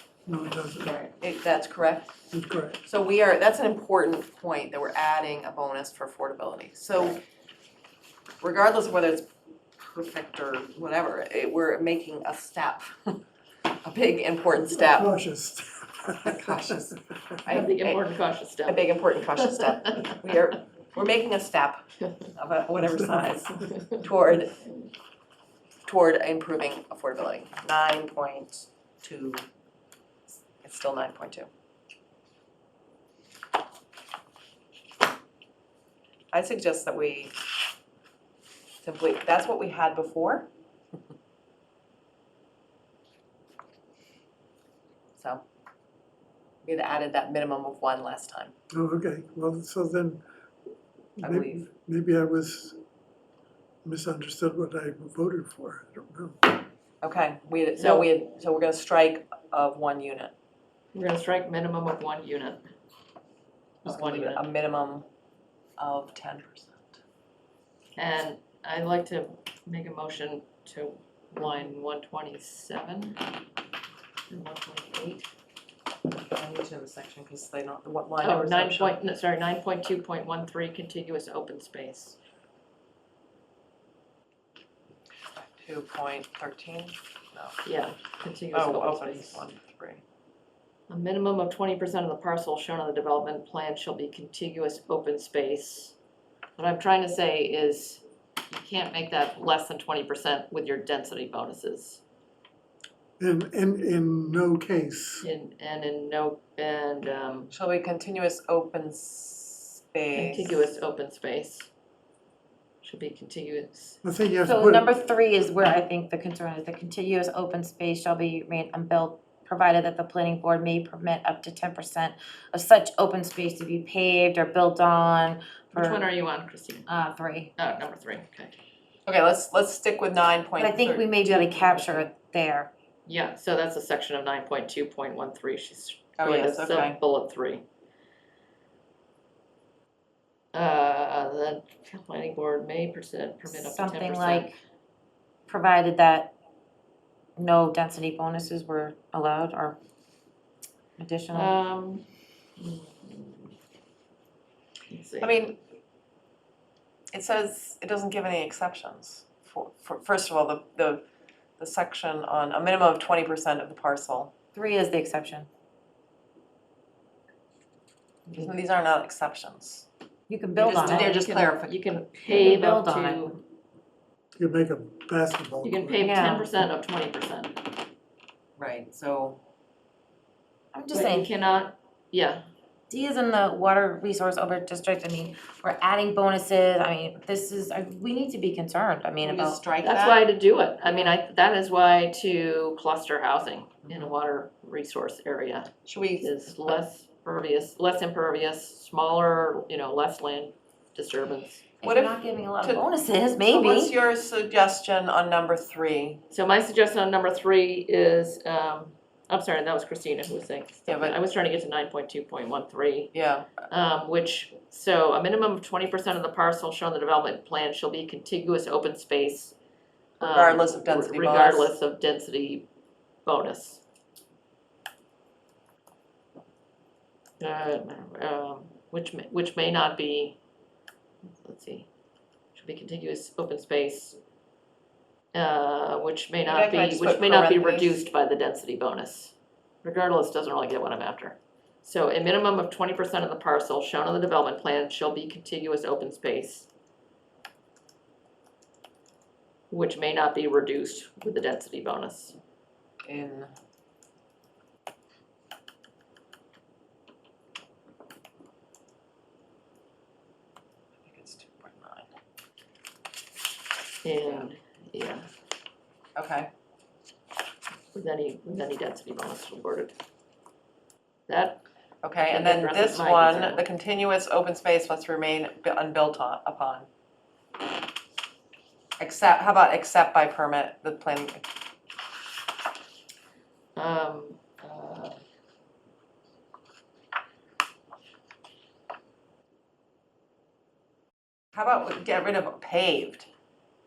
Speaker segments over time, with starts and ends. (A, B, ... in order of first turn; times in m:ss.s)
0:00.3-0:01.0 A
0:00.8-0:01.1 B
0:01.2-0:02.1 C
0:02.3-0:02.8 A
0:02.8-0:07.2 C
0:08.4-0:09.3 C
0:09.8-0:13.2 C
0:13.7-0:15.1 C
0:14.6-0:17.3 A
0:16.2-0:18.0 C
0:17.5-0:18.8 B
0:18.7-0:21.8 C
0:22.4-0:24.6 C
0:25.8-0:29.4 C
0:30.6-0:31.5 C
0:36.3-0:37.3 C
0:38.8-0:40.5 C
0:45.2-0:45.4 C
0:46.6-0:48.5 C
0:48.7-0:50.2 A
0:51.2-0:52.8 A
0:51.2-0:51.7 C
0:53.8-0:56.6 A
0:57.0-1:00.3 C
0:57.8-0:58.1 B
1:00.9-1:02.7 B
1:03.8-1:04.5 B
1:03.8-1:05.1 C
1:05.8-1:06.9 C
1:08.0-1:13.2 B
1:14.3-1:15.3 B
1:16.2-1:19.0 C
1:18.2-1:22.2 B
1:25.6-1:27.6 C
1:27.6-1:29.5 B
1:28.5-1:30.0 C
1:30.9-1:36.0 B
1:36.6-1:42.0 B
1:43.2-1:45.3 A
1:45.2-1:47.5 B
1:47.5-1:50.7 C
1:50.1-1:51.7 B
1:52.8-1:54.0 B
1:54.0-1:54.9 A
1:54.4-2:06.0 D
2:05.7-2:06.9 B
2:06.9-2:07.5 D
2:07.6-2:08.6 B
2:09.1-2:11.2 C
2:10.6-2:12.7 D
2:11.3-2:12.1 B
2:13.1-2:17.6 B
2:16.2-2:17.0 C
2:20.5-2:24.5 B
2:23.4-2:24.6 D
2:25.5-2:26.4 D
2:27.4-2:29.8 D
2:31.0-2:31.6 D
2:31.3-2:33.5 B
2:34.9-2:35.3 B
2:35.2-2:35.6 C
2:37.1-2:41.0 C
2:41.6-2:44.3 C
2:44.5-2:45.5 D
2:48.3-2:49.9 C
2:50.3-2:51.1 D
2:50.6-2:53.4 B
2:50.7-2:51.8 C
2:52.3-2:53.3 D
2:54.4-2:56.2 A
2:55.6-2:57.6 B
2:56.0-2:56.5 D
2:58.6-2:59.4 C
3:00.7-3:01.3 D
3:00.9-3:02.4 B
3:02.9-3:09.6 D
3:09.2-3:10.2 C
3:09.8-3:21.7 B
3:13.9-3:14.1 C
3:15.9-3:16.8 C
3:21.8-3:23.9 D
3:21.8-3:22.9 C
3:23.4-3:26.2 C
3:26.3-3:33.1 B
3:30.9-3:31.2 C
3:33.1-3:33.6 C
3:33.7-3:39.6 B
3:40.2-3:42.7 B
3:40.2-3:41.8 C
3:43.2-3:43.8 B
3:47.4-3:50.4 B
3:51.3-3:51.9 B
3:52.6-3:54.2 B
3:55.3-4:06.7 B
3:56.5-3:58.0 C
4:09.7-4:12.4 B
4:13.0-4:13.5 C
4:21.0-4:22.1 C
4:24.0-4:25.3 B
4:24.2-4:24.5 C
4:26.2-4:26.5 C
4:27.9-4:29.9 B
4:31.3-4:31.6 B
4:32.0-4:36.9 C
4:32.2-4:33.6 B
4:39.0-4:41.5 C
4:43.8-4:45.2 B
4:51.5-4:53.3 C